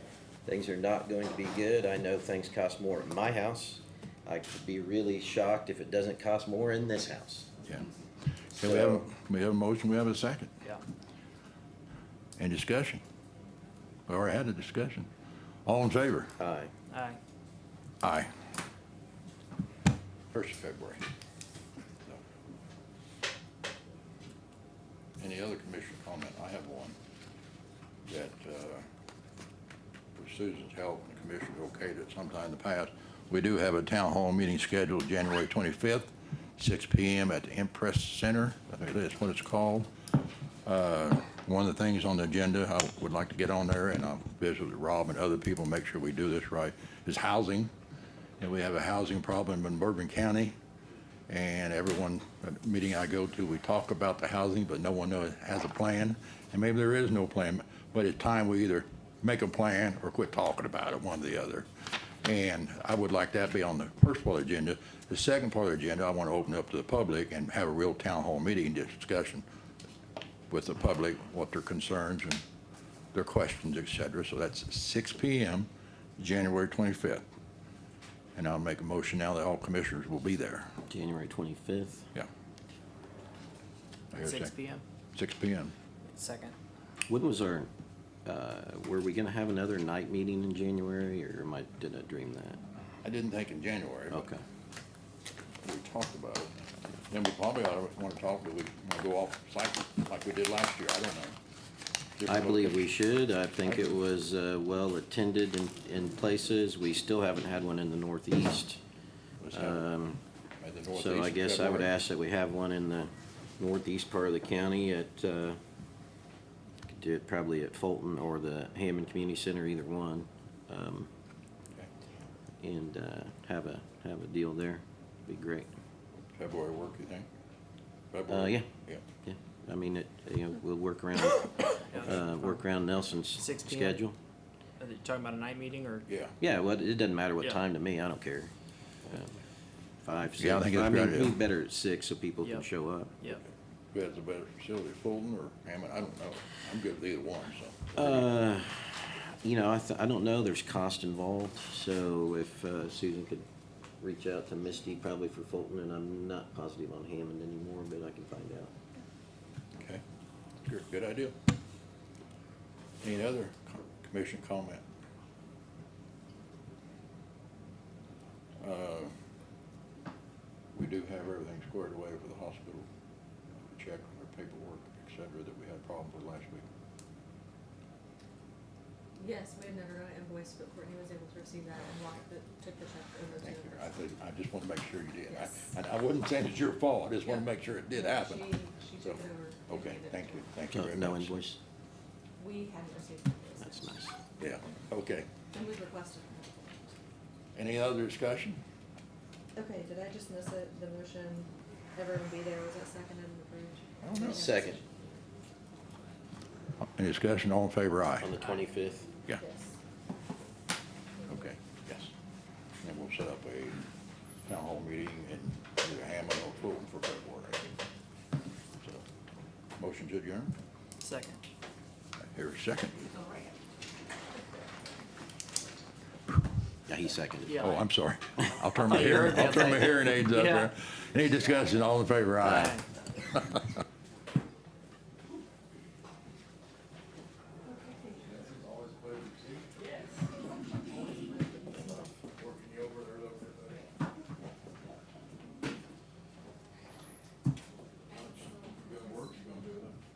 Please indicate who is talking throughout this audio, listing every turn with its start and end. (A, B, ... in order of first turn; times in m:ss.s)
0:00.4-0:07.5 A
0:08.5-0:10.5 B
0:08.6-0:09.1 A
0:12.4-0:13.0 B
0:14.1-0:15.1 B
0:15.6-0:16.3 B
0:16.4-0:16.7 A
0:16.9-0:17.2 C
0:18.0-0:18.3 B
0:20.3-0:21.0 B
0:25.2-0:27.0 B
0:28.1-0:28.8 B
0:30.2-0:39.9 B
0:40.6-0:47.7 B
0:48.4-0:50.5 B
0:51.3-1:09.4 B
1:10.5-1:12.4 B
1:13.1-1:17.2 B
1:18.4-1:20.7 B
1:20.9-1:22.1 A
1:24.1-1:24.6 B
1:24.2-1:24.8 C
1:25.2-1:25.7 B
1:26.1-1:26.6 C
1:27.1-1:27.7 A
1:28.2-1:32.6 A
1:33.0-1:34.3 B
1:34.1-1:34.4 A
1:35.6-1:36.5 B
1:37.1-1:41.4 B
1:42.2-1:42.8 B
1:42.2-1:48.8 A
1:49.4-1:49.9 B
1:49.5-1:50.2 A
1:50.6-1:51.9 B
1:50.9-1:55.6 A
1:56.9-2:01.1 A
2:02.6-2:05.7 A
2:06.3-2:07.3 B
2:08.1-2:09.0 B
2:08.3-2:08.7 A
2:09.2-2:14.2 A
2:11.9-2:12.2 C
2:13.4-2:14.0 C
2:14.8-2:16.1 C
2:16.1-2:16.4 B
2:16.4-2:18.5 A
2:19.1-2:19.4 A
2:20.0-2:23.1 A
2:20.4-2:21.4 B
2:23.9-2:28.3 B
2:28.0-2:33.4 A
2:34.0-2:38.7 A
2:40.6-2:41.3 B
2:43.0-2:44.8 B
2:48.6-2:49.1 B
2:50.7-2:52.9 B
2:53.6-2:56.7 B
2:59.2-3:04.0 D
3:03.4-3:11.3 B
3:05.3-3:05.7 D
3:07.2-3:10.4 D
3:10.7-3:11.6 A
3:12.4-3:14.0 D
3:13.6-3:14.2 A
3:14.4-3:15.3 B
3:15.5-3:17.0 D
3:17.6-3:18.6 B
3:19.6-3:24.9 D
3:24.0-3:24.5 B
3:24.2-3:24.8 A
3:26.9-3:28.3 B
3:28.2-3:29.1 A
3:29.4-3:29.8 D
3:31.3-3:32.1 B
3:32.8-3:33.8 B
3:34.5-3:37.8 B
3:38.8-3:39.0 B
3:39.8-3:40.6 B
3:41.0-3:41.4 C
3:42.3-3:43.0 B
3:46.9-3:47.7 A
3:47.5-3:47.8 C
3:47.6-3:53.7 B
3:48.6-3:50.7 C
3:52.4-3:52.8 C
3:57.7-3:58.5 D
3:58.4-3:59.7 B
4:01.0-4:02.0 D
4:02.3-4:03.8 B
4:08.1-4:10.0 B